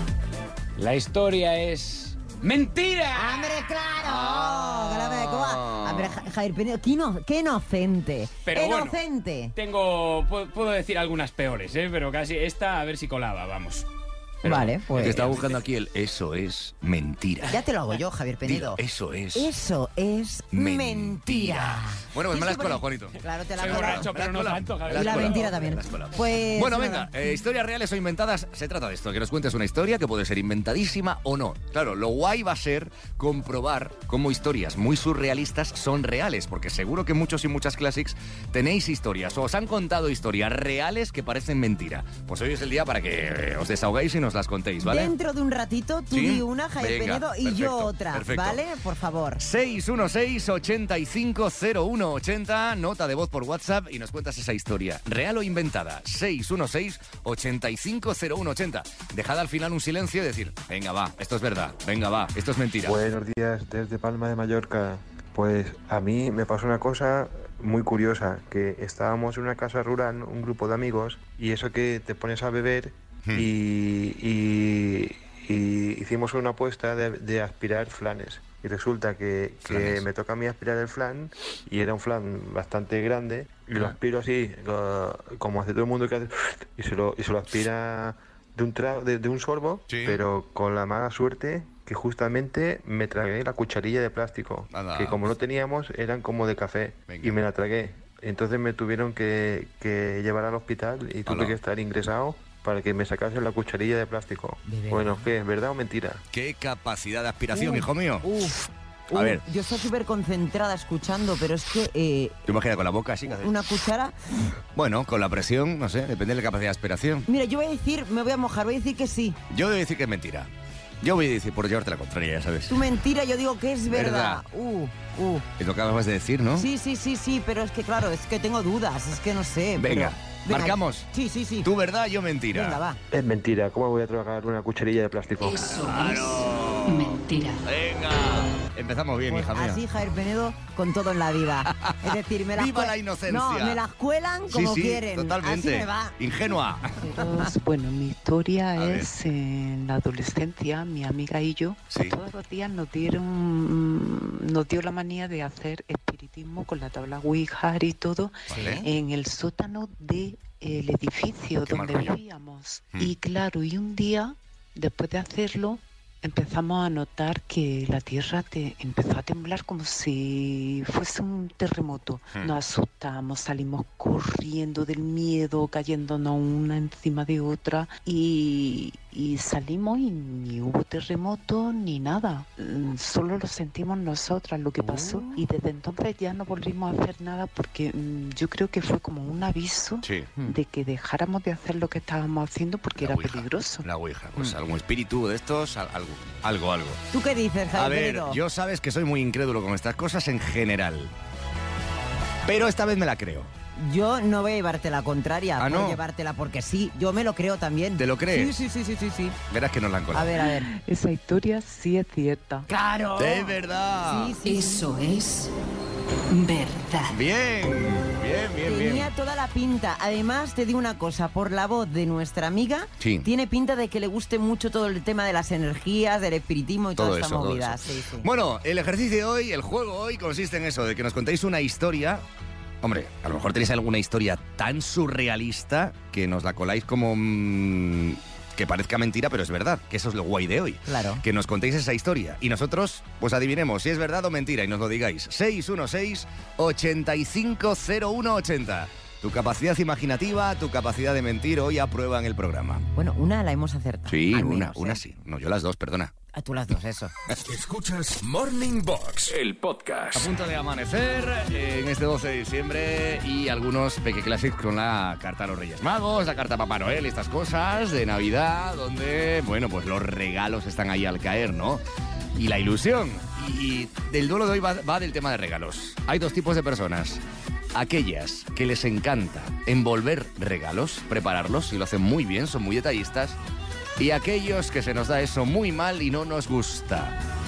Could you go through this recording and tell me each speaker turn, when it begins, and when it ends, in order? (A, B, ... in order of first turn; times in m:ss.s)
0:00.8-0:03.6 A
0:03.1-0:09.5 B
0:04.0-0:06.2 C
0:08.4-0:09.0 A
0:09.6-0:13.9 A
0:14.4-0:15.6 A
0:14.4-0:15.4 B
0:15.0-0:17.6 C
0:17.4-0:18.8 B
0:18.5-0:19.5 C
0:19.3-0:24.1 B
0:20.5-0:45.1 C
0:23.6-0:25.6 A
0:24.9-0:27.1 B
0:44.8-0:49.4 B
0:46.1-0:48.6 C
0:49.4-1:03.0 C
1:02.8-1:46.2 D
1:19.7-1:20.0 C
1:29.9-1:30.2 C
1:34.7-1:35.3 C
1:37.1-1:37.4 C
1:41.3-1:41.6 C
1:44.7-1:45.3 B
1:46.3-1:48.3 C
1:47.5-1:52.5 B
1:49.1-1:49.4 C
1:52.5-1:53.7 C
1:53.3-1:54.2 B
1:54.8-1:57.3 C
1:57.3-1:59.4 B
1:59.5-2:00.5 C
2:01.0-2:02.8 C
2:02.7-2:05.5 B
2:03.9-2:04.4 C
2:05.6-2:06.7 C
2:06.5-2:11.7 B
2:09.8-2:11.1 C
2:11.6-2:12.8 C
2:12.5-2:13.0 B
2:13.1-2:15.8 D
2:15.4-2:17.6 E
2:15.6-2:19.8 C
2:19.3-2:26.2 B
2:21.8-2:23.8 C
2:24.5-2:27.0 C
2:27.0-3:13.9 F
2:28.8-2:29.1 C
2:31.9-2:32.2 C
2:38.5-2:38.8 C
2:41.7-2:42.2 C
3:04.8-3:05.4 B
3:10.0-3:10.3 C
3:13.0-3:17.0 C
3:17.1-3:18.4 B
3:17.7-3:21.1 C
3:22.4-3:23.5 C
3:23.8-3:29.4 B
3:25.6-3:26.0 C
3:28.0-3:28.5 C
3:29.5-3:30.3 C
3:30.1-3:30.7 B
3:30.5-3:32.7 F
3:32.7-3:34.9 B
3:33.2-3:34.4 C
3:34.4-3:35.5 E
3:36.3-3:37.2 E
3:37.1-3:39.1 C
3:38.6-3:48.3 B
3:43.0-3:43.3 C
3:47.0-3:52.2 C
3:52.8-4:12.9 C
4:00.9-4:01.2 B
4:13.0-4:15.0 B
4:14.1-4:16.1 C
4:16.3-4:17.1 B
4:17.4-4:20.3 G
4:20.2-4:31.8 C
4:32.3-4:37.2 C
4:37.7-4:43.4 C
4:44.0-4:47.2 C